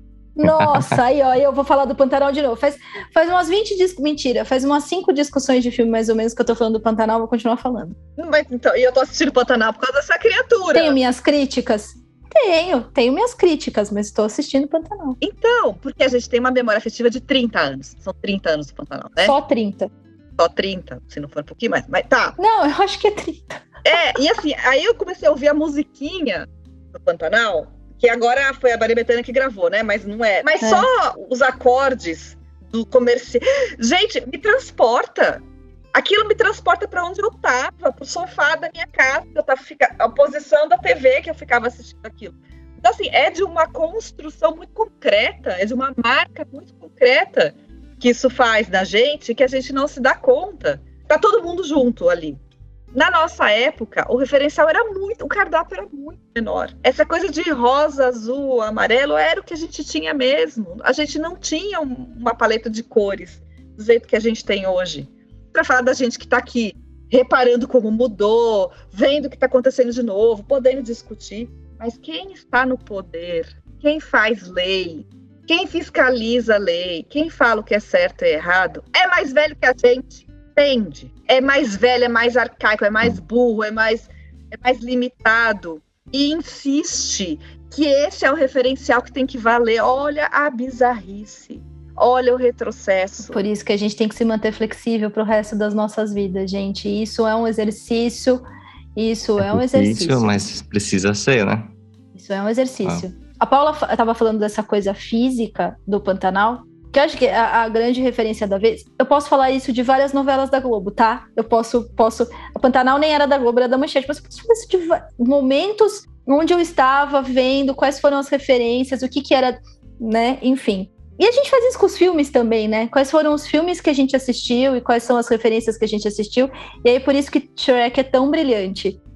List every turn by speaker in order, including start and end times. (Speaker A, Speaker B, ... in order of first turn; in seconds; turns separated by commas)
Speaker A: 0.4-8.0, Speaker B: 0.4-1.0, Speaker C: 8.2-11.0, Speaker A: 10.7-15.2, Speaker C: 15.2-19.4, Speaker A: 19.2-19.9, Speaker C: 20.4-22.4, Speaker A: 22.4-24.0, Speaker C: 23.9-35.4, Speaker A: 30.6-30.9, Speaker C: 35.9-52.4, Speaker C: 52.9-93.4, Speaker A: 93.3-98.4, Speaker A: 99.0-100.4, Speaker B: 99.4-101.7, Speaker A: 102.2-129.0